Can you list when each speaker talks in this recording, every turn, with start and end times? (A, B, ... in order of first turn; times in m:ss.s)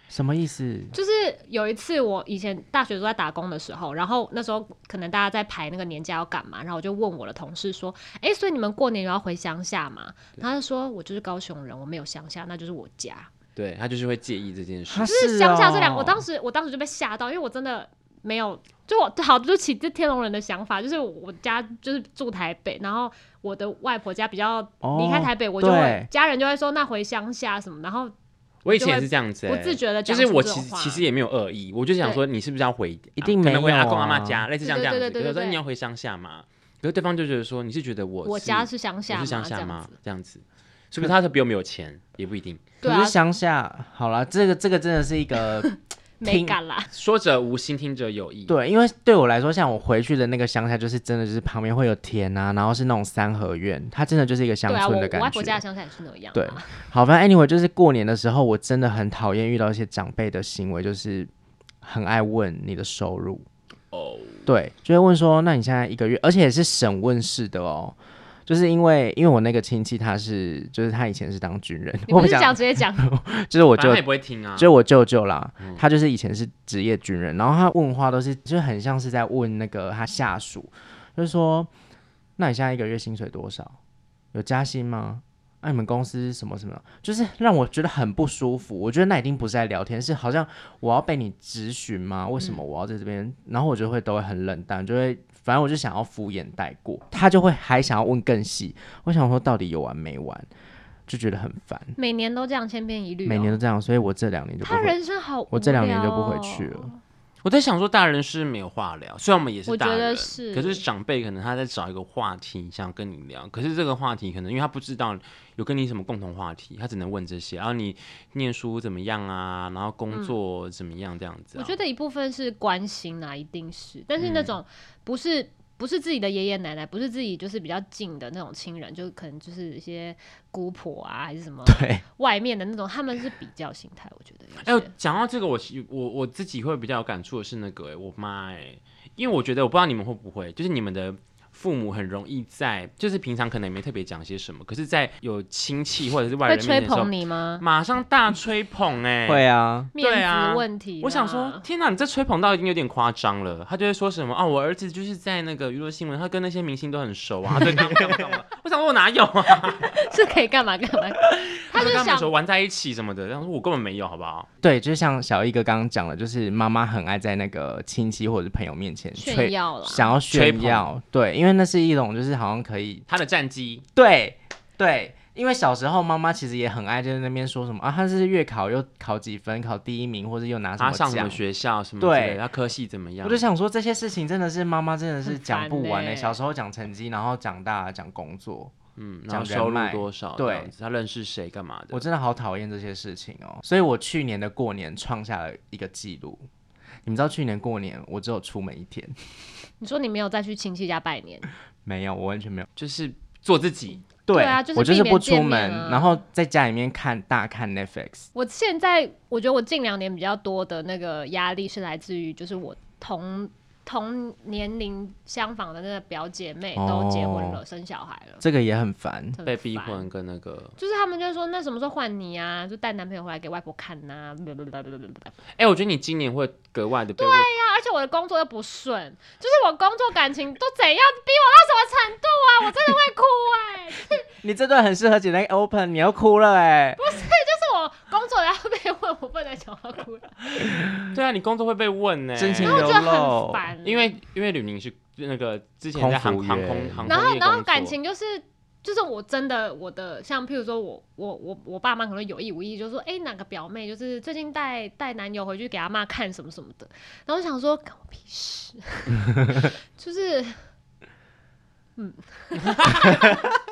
0:00.1-0:00.9 A
0:00.9-0:13.3 B
0:13.6-0:15.1 C
0:14.9-0:16.2 A
0:15.0-0:28.1 B
0:24.8-0:26.1 A
0:28.6-0:42.7 C
0:28.7-0:31.0 B
0:33.2-0:34.4 A
0:34.6-0:35.6 B
0:38.2-0:40.0 B
0:42.8-0:43.2 B
0:42.8-0:45.7 A
0:45.6-0:46.9 B
0:46.2-0:46.6 A
0:46.9-0:48.5 C
0:48.5-0:55.6 A
0:54.6-0:56.7 B
0:56.3-1:01.3 A
1:01.8-1:03.4 A
1:03.9-1:04.5 C
1:04.4-1:21.7 A
1:12.1-1:13.1 B
1:13.8-1:14.7 C
1:15.6-1:15.8 C
1:22.4-1:23.8 A
1:24.3-1:40.5 A
1:41.1-1:42.0 A
1:42.0-1:43.6 B
1:43.2-1:45.0 A
1:44.6-1:47.0 B
1:45.5-1:46.9 A
1:47.4-2:01.8 C
1:49.6-1:50.8 B
2:01.5-2:14.9 B
2:04.2-2:04.5 C
2:11.6-2:12.0 A
2:14.6-2:29.4 C
2:26.4-2:27.6 B
2:29.2-2:29.9 A
2:30.0-2:31.6 B
2:30.0-2:40.0 C
2:39.8-2:42.3 B
2:41.3-2:44.5 C
2:44.6-2:53.0 A
2:49.1-2:50.1 B
2:50.3-2:50.9 C
2:53.1-2:53.8 C
2:54.0-3:01.4 A
3:00.8-3:03.5 C
3:02.0-3:02.4 A
3:03.2-3:08.7 A
3:05.2-3:06.4 B
3:09.0-3:12.1 C
3:09.3-3:10.7 A
3:11.9-3:16.4 A
3:17.0-3:19.1 A
3:19.8-3:21.5 B
3:21.8-3:22.7 A
3:22.8-3:24.1 C
3:24.2-3:26.2 B
3:24.3-3:28.3 A
3:28.3-3:38.4 B
3:36.8-3:37.6 A
3:38.4-3:39.4 A
3:39.4-3:40.1 B
3:39.4-3:40.8 C
3:40.8-3:45.3 B
3:45.6-3:47.5 C
3:47.2-3:54.2 B
3:54.3-3:57.0 A
3:57.0-4:00.7 B
4:01.1-4:03.0 C
4:02.4-4:03.7 A
4:02.6-4:04.2 B
4:03.8-4:07.9 C
4:05.9-4:07.2 A
4:07.0-4:20.5 B
4:22.0-4:23.3 B
4:22.6-4:23.1 C
4:23.1-4:23.4 A